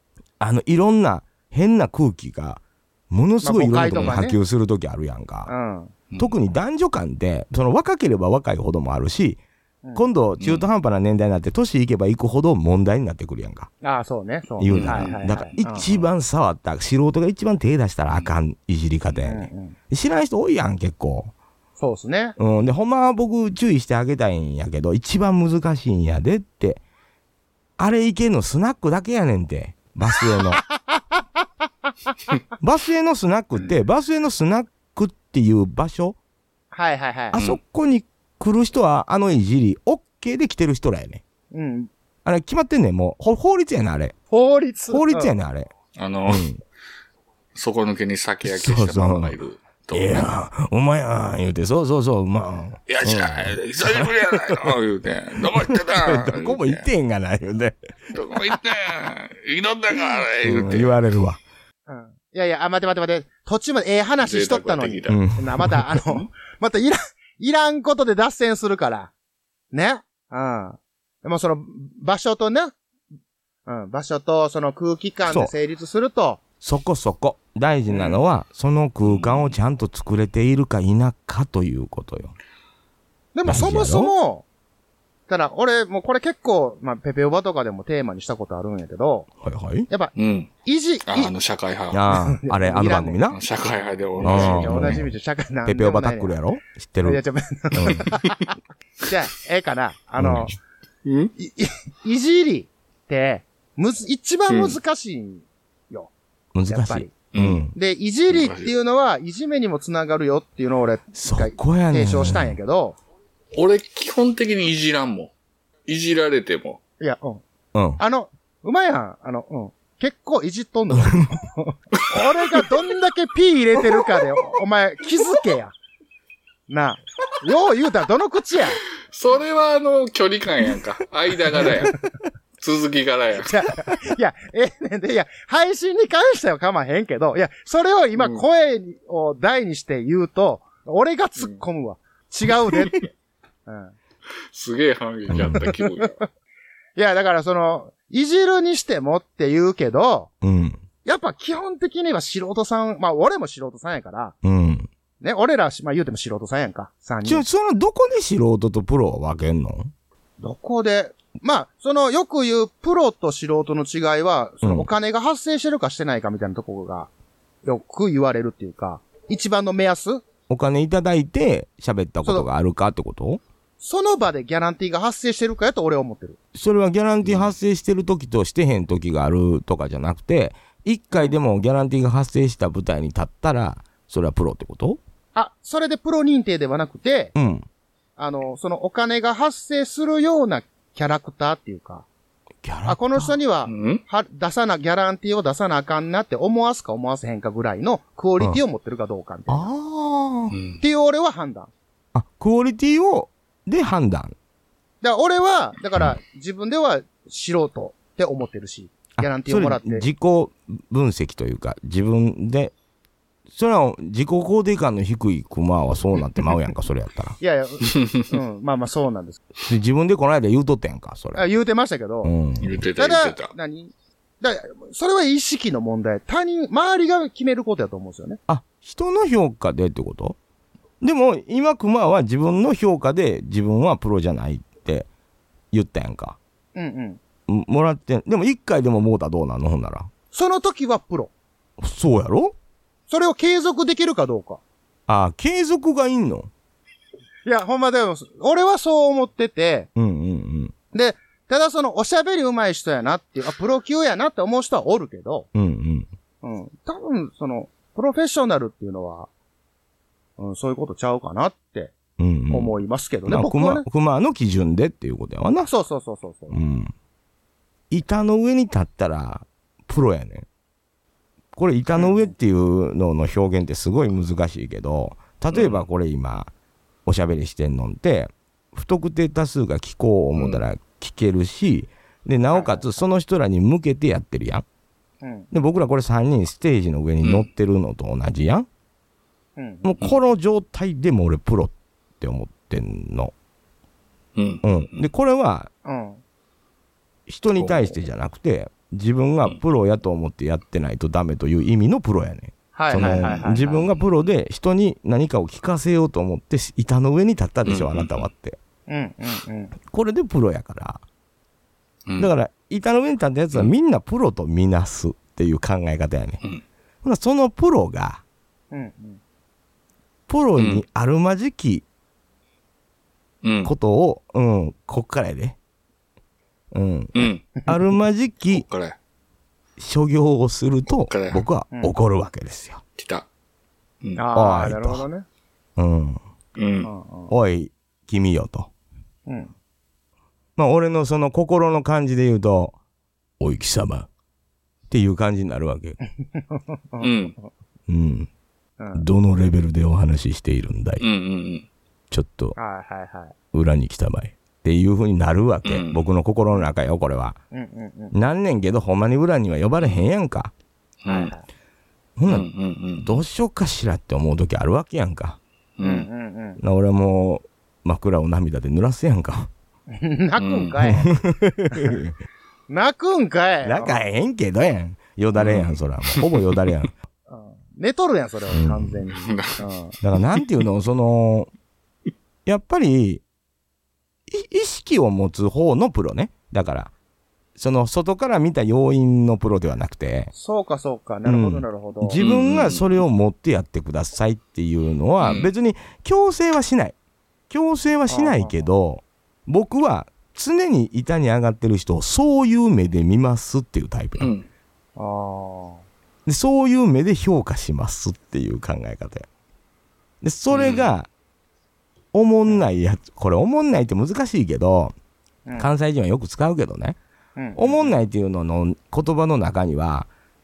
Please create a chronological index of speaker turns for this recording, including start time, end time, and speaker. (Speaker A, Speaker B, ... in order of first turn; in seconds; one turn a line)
Speaker A: 0.4-5.5
Speaker B: 3.4-4.4
Speaker B: 5.5-5.9
Speaker A: 6.2-9.4
Speaker A: 9.9-13.7
Speaker C: 10.4-10.7
Speaker B: 13.8-15.9
Speaker A: 14.6-21.3
Speaker C: 14.7-15.5
Speaker B: 19.2-19.7
Speaker B: 21.8-22.4
Speaker A: 22.4-26.8
Speaker A: 27.8-30.6
Speaker B: 30.8-31.2
Speaker A: 32.6-36.2
Speaker B: 36.7-37.4
Speaker A: 37.3-41.2
Speaker B: 41.5-41.9
Speaker A: 42.2-44.1
Speaker B: 44.3-45.3
Speaker A: 44.9-45.7
Speaker C: 46.0-46.5
Speaker A: 46.3-46.6
Speaker C: 47.5-50.3
Speaker A: 48.4-49.4
Speaker A: 49.9-54.7
Speaker C: 52.9-56.8
Speaker A: 55.4-57.8
Speaker C: 58.1-60.9
Speaker A: 60.4-61.4
Speaker B: 61.9-69.1
Speaker C: 64.2-65.2
Speaker A: 65.1-66.0
Speaker B: 69.7-72.7
Speaker B: 73.7-76.4
Speaker A: 75.2-75.5
Speaker A: 76.6-82.3
Speaker B: 77.9-78.2
Speaker C: 79.0-79.5
Speaker B: 83.3-84.4
Speaker A: 83.4-84.1
Speaker B: 85.3-89.3
Speaker A: 89.4-89.9
Speaker C: 90.2-90.5
Speaker B: 90.6-91.3
Speaker C: 91.1-92.0
Speaker A: 91.9-93.4
Speaker B: 92.1-93.2
Speaker C: 93.3-95.0
Speaker B: 94.2-96.4
Speaker A: 94.2-95.1
Speaker A: 95.6-97.2
Speaker B: 97.0-100.5
Speaker A: 97.7-98.1
Speaker A: 100.2-100.5
Speaker C: 101.0-101.3
Speaker B: 101.4-106.1
Speaker C: 104.5-104.8
Speaker A: 106.5-107.7
Speaker B: 106.7-107.2
Speaker C: 107.3-107.6
Speaker B: 107.7-113.0
Speaker C: 108.3-108.7
Speaker A: 111.1-112.6
Speaker C: 113.5-115.3
Speaker C: 115.9-116.8
Speaker B: 117.0-117.4
Speaker A: 117.7-118.0
Speaker B: 118.0-125.7
Speaker A: 120.9-121.3
Speaker B: 126.7-128.8
Speaker C: 129.1-132.0
Speaker B: 131.6-131.9
Speaker C: 132.6-133.6
Speaker B: 133.4-143.1
Speaker C: 138.2-138.4
Speaker B: 143.7-143.9
Speaker C: 144.5-146.2
Speaker A: 145.3-145.6
Speaker B: 145.4-146.2
Speaker B: 146.9-150.3
Speaker A: 150.4-150.8
Speaker B: 151.0-154.3
Speaker A: 154.4-154.9
Speaker B: 155.2-157.4
Speaker A: 157.2-159.9
Speaker B: 160.4-167.1
Speaker A: 164.6-164.9
Speaker B: 167.6-170.2
Speaker A: 170.5-173.4
Speaker B: 173.8-176.4
Speaker A: 176.5-185.0
Speaker C: 177.2-177.5
Speaker B: 185.3-187.3
Speaker A: 187.3-187.7
Speaker B: 188.2-192.1
Speaker A: 192.6-193.3
Speaker B: 192.8-199.7
Speaker C: 193.7-194.0
Speaker A: 199.5-200.5
Speaker C: 200.5-200.8
Speaker B: 200.8-201.7
Speaker A: 202.1-204.3
Speaker B: 205.0-210.1
Speaker A: 209.2-212.7
Speaker A: 213.5-217.4
Speaker B: 217.4-219.4
Speaker C: 217.8-218.2
Speaker A: 219.6-221.4
Speaker B: 221.3-222.3
Speaker A: 222.2-222.8
Speaker C: 222.6-223.5
Speaker B: 223.0-228.4
Speaker A: 228.5-230.4
Speaker A: 231.0-235.1
Speaker A: 235.7-236.4
Speaker B: 236.7-237.2
Speaker A: 237.5-240.1
Speaker B: 240.3-241.3
Speaker A: 241.8-242.6
Speaker B: 243.1-244.6
Speaker A: 245.1-246.5
Speaker B: 247.4-249.9
Speaker A: 249.9-250.7
Speaker B: 250.9-255.5
Speaker A: 255.5-256.1
Speaker B: 256.4-259.3
Speaker B: 260.4-261.9
Speaker A: 262.2-262.7
Speaker B: 262.5-263.9
Speaker A: 263.2-265.7
Speaker B: 265.6-266.6
Speaker A: 266.5-266.9
Speaker A: 267.9-270.4
Speaker A: 271.5-276.5
Speaker B: 271.9-272.3
Speaker C: 275.5-275.8
Speaker A: 277.1-284.6
Speaker C: 280.3-280.6
Speaker B: 282.5-283.0
Speaker B: 285.2-285.5
Speaker A: 285.5-288.7
Speaker C: 287.2-287.5
Speaker B: 289.6-289.9
Speaker A: 289.8-293.3
Speaker C: 294.4-295.0
Speaker A: 294.6-295.7
Speaker B: 295.8-296.2
Speaker A: 297.3-308.6
Speaker B: 302.7-303.9
Speaker C: 302.9-303.3
Speaker C: 307.6-308.3
Speaker B: 308.9-309.7
Speaker A: 309.9-311.0
Speaker A: 312.2-316.4
Speaker A: 317.0-318.2
Speaker B: 318.7-319.2
Speaker A: 320.3-321.8
Speaker C: 320.6-320.8
Speaker C: 323.4-323.7
Speaker A: 323.6-325.6
Speaker A: 326.7-328.6
Speaker C: 327.1-327.5
Speaker C: 328.5-328.9
Speaker A: 329.8-332.8
Speaker C: 330.9-331.4
Speaker C: 333.0-333.2
Speaker B: 334.2-335.2
Speaker A: 334.3-335.1
Speaker A: 335.8-336.2
Speaker C: 336.6-336.9
Speaker B: 336.8-337.3
Speaker A: 337.3-338.7
Speaker B: 339.3-339.5
Speaker A: 340.6-342.7
Speaker A: 343.4-344.1
Speaker A: 344.9-346.0
Speaker B: 346.3-347.3
Speaker C: 347.0-347.3
Speaker A: 347.9-348.3
Speaker B: 348.8-349.1
Speaker A: 348.9-351.0
Speaker C: 351.0-351.7
Speaker A: 352.1-352.6
Speaker B: 352.6-353.3
Speaker A: 353.5-357.4
Speaker C: 355.6-356.0
Speaker B: 357.5-358.1
Speaker A: 358.1-360.5
Speaker C: 361.0-361.3
Speaker B: 361.1-361.4
Speaker A: 362.2-362.5
Speaker C: 362.2-363.2
Speaker A: 363.0-365.4
Speaker C: 365.8-366.1
Speaker B: 365.8-366.6
Speaker A: 366.6-369.5
Speaker B: 369.9-371.2
Speaker C: 370.4-370.8
Speaker A: 370.9-372.2
Speaker B: 372.7-374.0
Speaker A: 373.6-376.9
Speaker C: 375.4-376.4
Speaker B: 377.3-379.9
Speaker A: 378.5-379.0
Speaker C: 379.1-379.6
Speaker A: 380.0-381.5
Speaker A: 382.4-383.2
Speaker A: 384.3-386.9
Speaker A: 387.6-390.3
Speaker B: 390.3-392.2
Speaker A: 391.2-396.9
Speaker C: 392.2-393.0
Speaker C: 395.2-395.5
Speaker A: 397.5-404.3
Speaker B: 398.1-398.6
Speaker C: 404.2-404.5
Speaker B: 405.0-405.8
Speaker A: 406.2-409.3
Speaker A: 410.2-411.1
Speaker C: 410.5-410.9
Speaker A: 412.1-414.9
Speaker A: 415.6-417.0
Speaker B: 417.4-417.9
Speaker A: 417.6-420.1